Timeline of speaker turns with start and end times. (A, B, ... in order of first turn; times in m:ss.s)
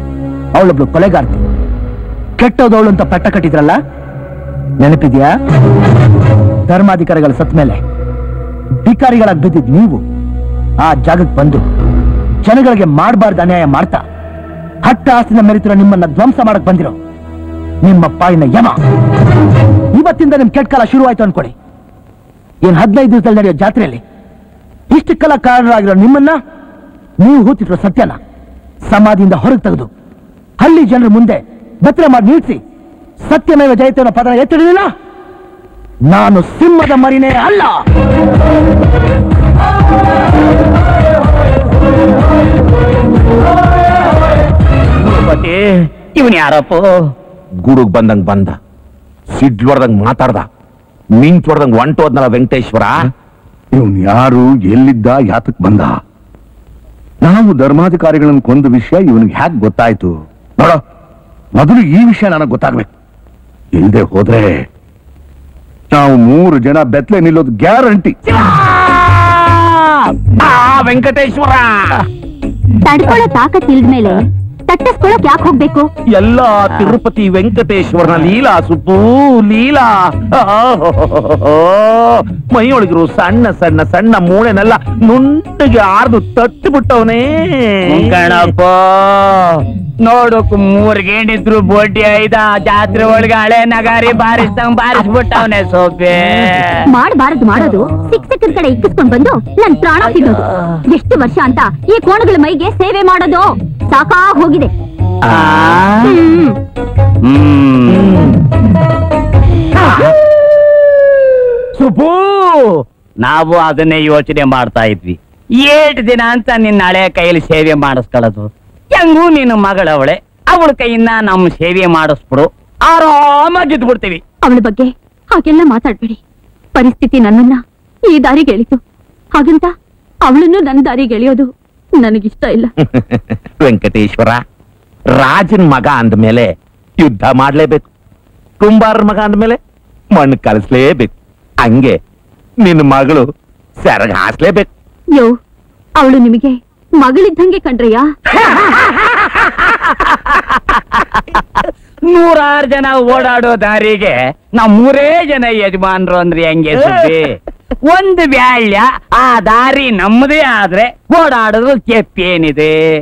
0:00.6-0:01.4 A
0:02.4-0:03.8 A
0:04.8-0:05.3 A
0:06.7-0:07.8 A
0:08.8-0:10.0 A
0:10.8-0:11.6 A
0:12.4-0:14.0 A
0:14.8-0:17.0 A
0:17.8-0:18.8 A
0:20.0-0:21.6 A
0:22.6-0:24.0 A
0:24.9-0:26.4 A
0:27.2-0:28.2 A
0:28.9-0:29.9 A
0:30.6-0:32.6 A
0:33.3-0:34.9 A
0:36.1-0:37.8 A
0:45.0-0:47.1 B
0:47.6-0:48.6 C
0:49.3-0:50.5 C
0:51.2-0:53.0 C
0:53.8-0:55.9 D
0:57.2-1:00.8 D
1:01.6-1:02.9 D
1:03.8-1:04.6 D
1:05.9-1:08.2 D
1:08.3-1:08.6 B
1:10.4-1:12.0 C
1:12.8-1:15.9 E
1:16.1-1:28.4 C
1:27.9-1:36.8 B
1:36.9-1:44.7 E
1:45.2-1:46.2 B
1:47.2-1:48.3 B
1:51.8-2:04.2 B
2:04.4-2:06.2 E
2:06.8-2:08.8 E
2:09.4-2:09.7 E
2:10.3-2:12.7 E
2:12.9-2:14.4 C
2:15.1-2:17.9 C
2:18.6-2:19.6 C
2:20.1-2:22.0 C
2:22.6-2:23.3 C
2:23.8-2:24.7 C
2:26.0-2:28.1 E
2:28.7-2:29.1 B
2:32.0-2:42.8 B